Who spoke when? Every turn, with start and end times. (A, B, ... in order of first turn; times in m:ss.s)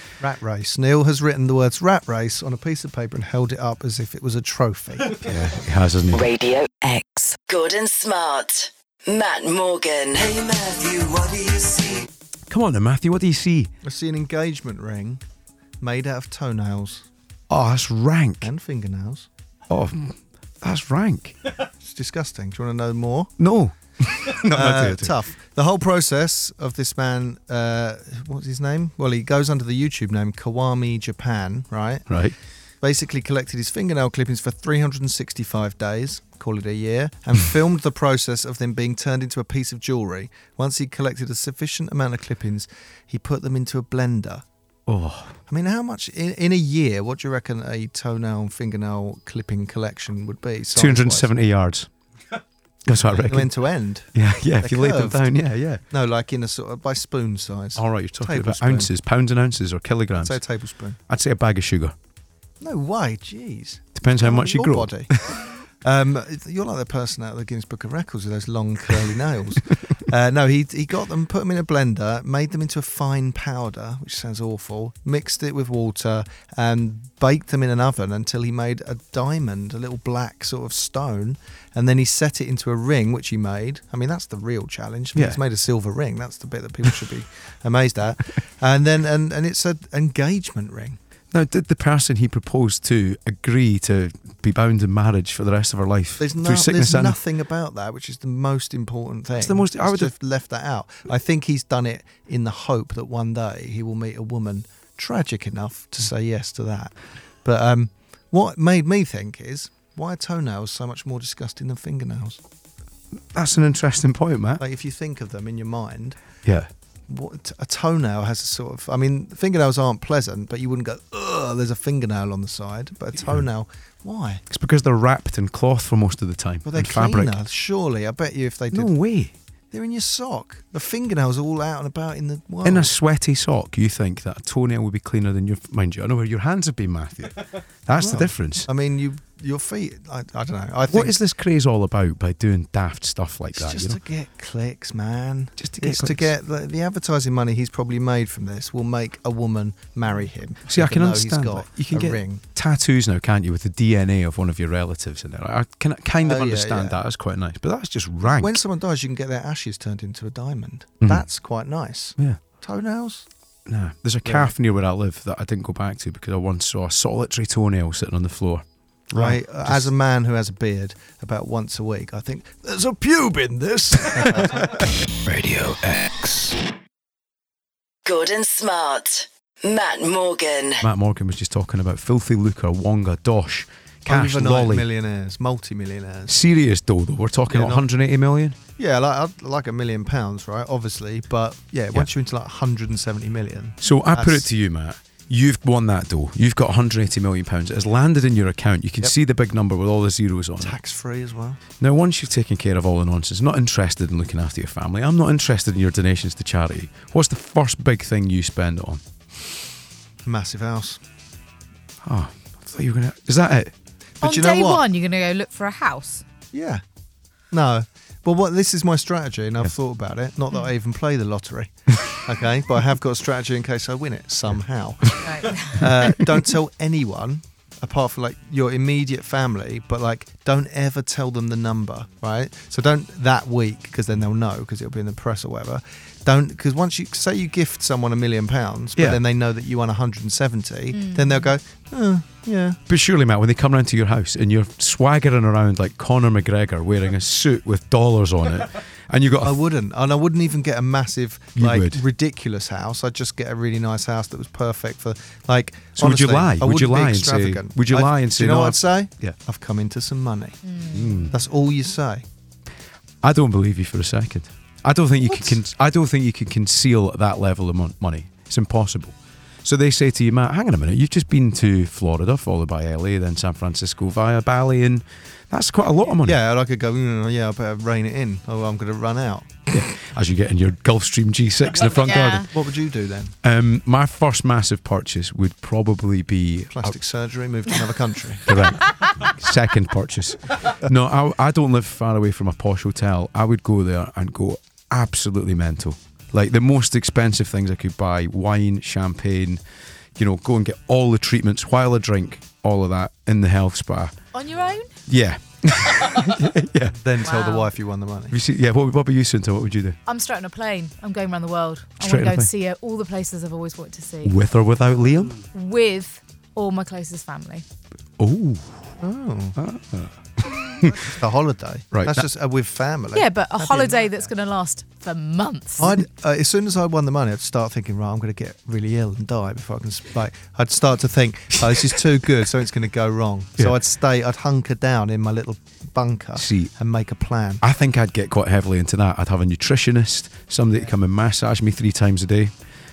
0:00.2-0:05.3 A
0:05.2-0:06.2 B
0:06.1-0:10.3 C
0:10.2-0:12.1 D
0:12.5-0:13.7 B
0:13.8-0:15.2 A
0:15.8-0:17.1 A
0:17.5-0:18.5 B
0:18.4-0:19.3 A
0:19.7-0:21.4 B
0:21.8-0:23.3 A
0:23.4-0:25.1 B
0:24.5-0:32.1 A
0:32.1-0:32.3 B
0:32.8-0:44.4 A
0:44.9-0:45.4 B
0:45.5-0:51.3 A
0:50.7-0:51.9 B
0:52.9-0:53.5 B
0:53.1-0:55.3 A
0:54.1-0:55.8 B
0:55.9-0:58.9 A
0:57.8-1:00.4 B
1:00.2-1:01.0 A
1:01.1-1:02.0 B
1:02.6-1:31.0 A
1:04.0-1:05.4 B
1:25.1-1:25.4 B
1:31.3-1:37.2 B
1:36.2-1:52.4 A
1:39.4-1:40.1 B
1:53.3-1:54.6 B
1:54.6-1:56.2 A
1:57.1-2:04.4 A
2:04.5-2:07.4 B
2:06.6-2:08.9 A
2:08.7-2:09.3 B
2:09.7-2:12.9 A
2:12.6-2:18.7 B
2:18.0-2:21.2 A
2:20.9-2:24.0 B
2:23.6-2:32.4 A
2:25.6-2:26.3 B
2:30.7-2:38.6 B
2:36.2-2:37.0 A
2:38.2-2:43.3 A
2:43.7-2:49.9 B
2:49.1-2:54.9 A
2:54.1-2:54.6 B
2:55.2-2:56.6 D
2:58.0-3:00.8 C
3:00.8-3:04.9 B
3:04.1-3:06.4 A
3:06.3-3:08.6 B
3:07.5-3:07.8 A
3:08.8-3:14.5 A
3:13.8-3:20.8 B
3:20.6-3:21.6 A
3:21.8-3:29.0 B
3:30.2-3:31.0 A
3:32.0-3:33.7 B
3:34.2-3:34.8 A
3:34.2-3:36.2 E
3:36.5-3:36.8 A
3:37.5-4:02.8 A
3:45.2-3:45.8 E
3:45.8-3:46.2 B
4:01.0-4:01.5 E
4:02.9-4:09.6 B
4:09.4-4:20.6 A
4:11.6-4:12.0 B
4:16.0-4:19.4 B
4:20.7-4:21.5 E
4:20.9-4:21.3 B
4:21.3-4:22.2 A
4:23.2-4:36.4 B
4:36.2-4:39.6 A
4:39.7-4:42.5 B
4:42.1-4:42.5 E
4:42.5-4:43.4 A
4:43.4-4:46.9 B
4:46.7-4:48.6 A
4:48.5-4:59.6 B
5:00.2-5:04.2 B
5:04.3-5:05.0 E
5:05.1-5:07.0 B
5:07.0-5:08.4 A
5:07.2-5:07.7 E
5:08.3-5:10.0 B
5:10.1-5:14.4 E
5:12.0-5:12.5 B
5:14.2-5:15.4 B
5:15.5-5:17.6 E
5:18.2-5:18.8 B
5:19.0-5:19.6 A
5:19.6-5:21.0 B
5:20.9-5:24.3 A
5:21.9-5:22.3 B
5:23.1-5:26.0 E
5:25.8-5:37.6 A
5:36.4-5:36.7 B
5:37.6-5:42.5 B